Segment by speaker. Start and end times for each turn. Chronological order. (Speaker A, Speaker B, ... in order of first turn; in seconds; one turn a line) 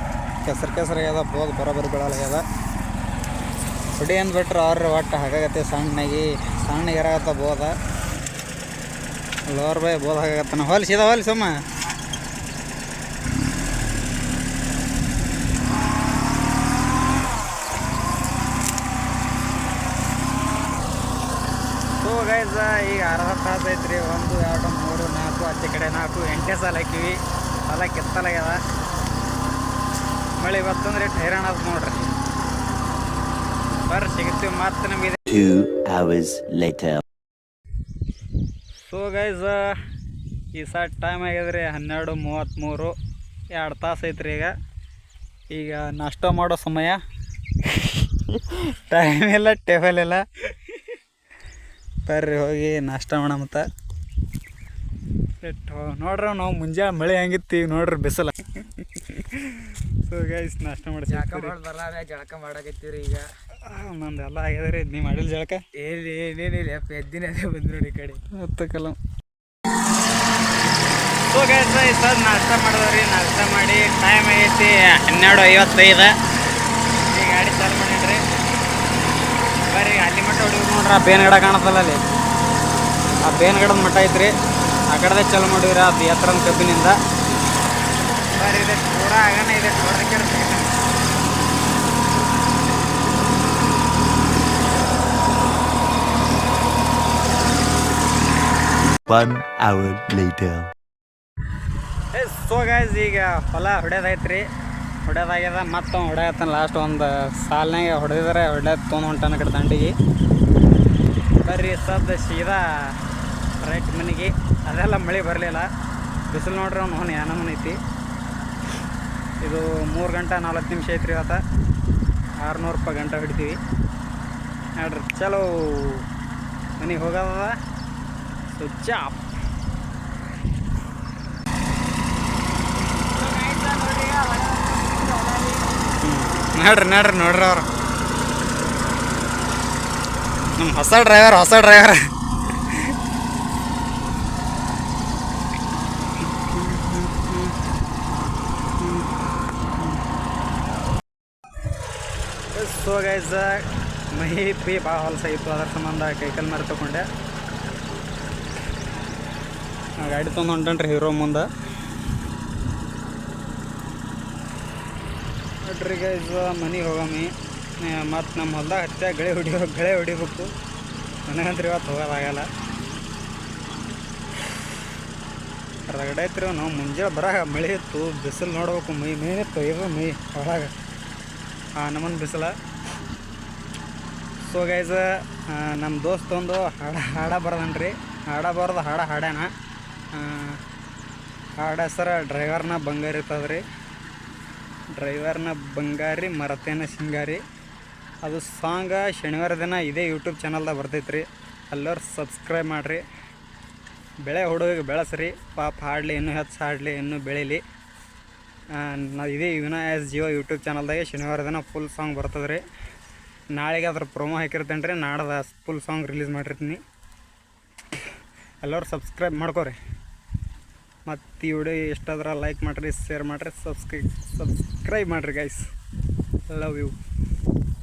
Speaker A: 0.4-2.4
Speaker A: 4.0-7.7
Speaker A: 9.5-11.5
Speaker A: 22.0-28.6
Speaker A: 30.4-32.1
Speaker A: 33.9-35.2
Speaker B: 35.3-37.0
Speaker A: 38.9-39.8
Speaker A: 40.5-42.9
Speaker A: 43.5-44.5
Speaker A: 45.5-47.0
Speaker A: 47.6-50.7
Speaker A: 52.0-53.6
Speaker A: 55.4-61.5
Speaker C: 61.1-63.2
Speaker A: 63.6-65.6
Speaker C: 65.8-68.2
Speaker A: 68.3-69.0
Speaker A: 71.1-76.1
Speaker A: 77.1-78.2
Speaker A: 79.7-82.0
Speaker A: 83.2-84.3
Speaker A: 84.9-87.0
Speaker A: 88.3-90.7
Speaker B: 99.1-100.7
Speaker A: 102.1-104.5
Speaker A: 105.0-109.9
Speaker A: 111.4-113.0
Speaker A: 113.6-115.7
Speaker A: 116.3-117.8
Speaker A: 119.4-121.4
Speaker A: 122.4-123.6
Speaker A: 124.8-126.0
Speaker A: 126.8-127.5
Speaker A: 128.5-129.3
Speaker C: 133.1-135.7
Speaker A: 136.0-137.7
Speaker A: 140.5-142.0
Speaker A: 142.6-142.9
Speaker A: 146.2-147.6
Speaker A: 148.8-149.1
Speaker A: 152.5-157.1
Speaker A: 160.0-161.5
Speaker A: 165.6-170.5
Speaker A: 171.3-172.5
Speaker A: 175.9-180.7
Speaker A: 181.8-182.5
Speaker A: 184.4-189.5
Speaker A: 190.1-190.6
Speaker A: 191.6-193.6
Speaker A: 194.9-197.4
Speaker A: 198.2-203.0
Speaker A: 204.2-207.6
Speaker A: 208.7-212.6
Speaker A: 213.5-216.8
Speaker A: 218.6-219.8
Speaker A: 221.1-225.7
Speaker A: 226.5-226.9